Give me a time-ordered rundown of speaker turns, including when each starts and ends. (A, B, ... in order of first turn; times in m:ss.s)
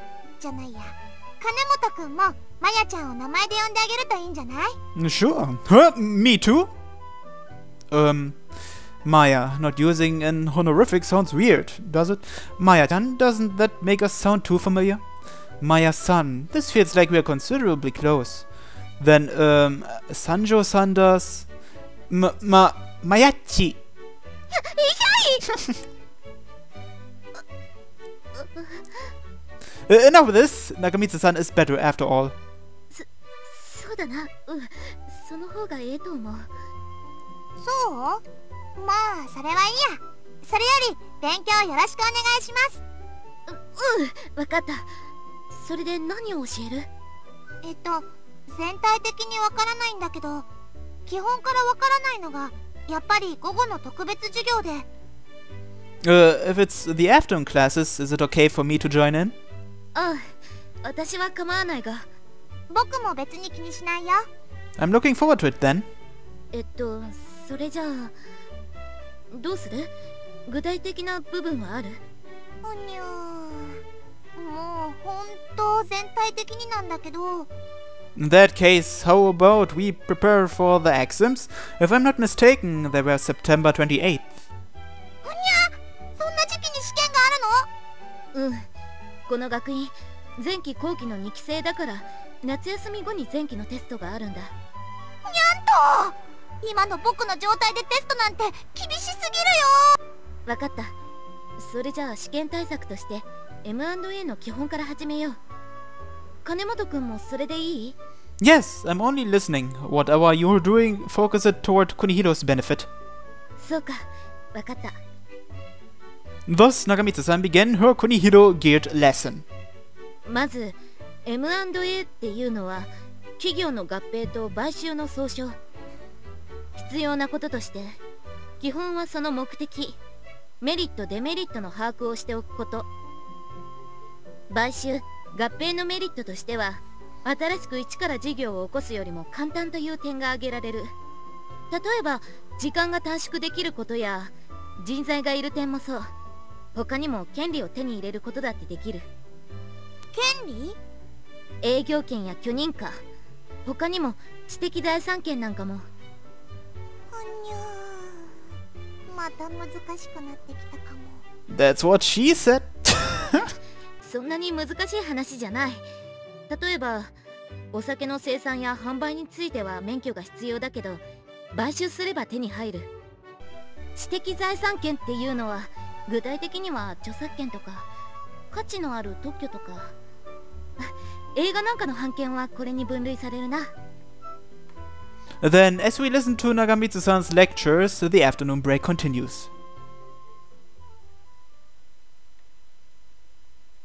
0:00.4-0:04.8 A
0:05.0-0:06.7 B
0:07.9-0:08.4 B
0:09.0-0:15.0 B
0:15.6-0:18.5 B
0:19.0-0:21.5 B
0:22.1-0:23.8 B
0:24.5-0:25.4 C
0:28.4-0:29.1 C
0:29.9-0:32.3 B
0:32.9-0:36.5 C
0:37.6-0:38.2 A
0:38.8-0:42.8 A
0:43.5-0:44.9 C
0:45.5-0:46.9 C
0:47.6-0:50.5 A
0:51.1-0:54.9 A
0:56.0-0:59.4 B
1:00.0-1:02.1 C
1:02.7-1:04.3 A
1:04.8-1:05.9 B
1:06.5-1:08.1 C
1:09.3-1:09.9 C
1:10.5-1:12.0 C
1:12.6-1:13.8 A
1:14.4-1:17.5 A
1:18.2-1:24.4 B
1:25.2-1:27.7 A
1:28.3-1:28.7 C
1:29.3-1:34.5 C
1:35.2-1:40.0 A
1:40.5-1:40.9 C
1:41.6-1:45.4 C
1:46.4-1:48.0 C
1:48.4-1:52.9 B
1:53.6-1:55.0 C
1:56.5-1:59.4 B
2:00.2-2:05.6 C
2:06.8-2:08.0 C
2:08.6-2:10.0 C
2:10.6-2:12.9 C
2:14.5-2:20.9 C
2:21.7-2:26.1 C
2:26.8-2:29.1 C
2:30.1-2:30.8 A
2:31.6-2:33.0 C
2:33.6-2:35.9 C
2:37.1-2:38.4 A
2:39.1-2:41.2 A
2:41.5-2:43.5 B
2:44.0-2:45.8 C
2:46.5-2:47.1 C
2:47.7-2:52.9 C
2:54.0-2:57.9 C
2:58.5-2:59.9 C
3:00.8-3:03.7 C
3:05.4-3:09.5 B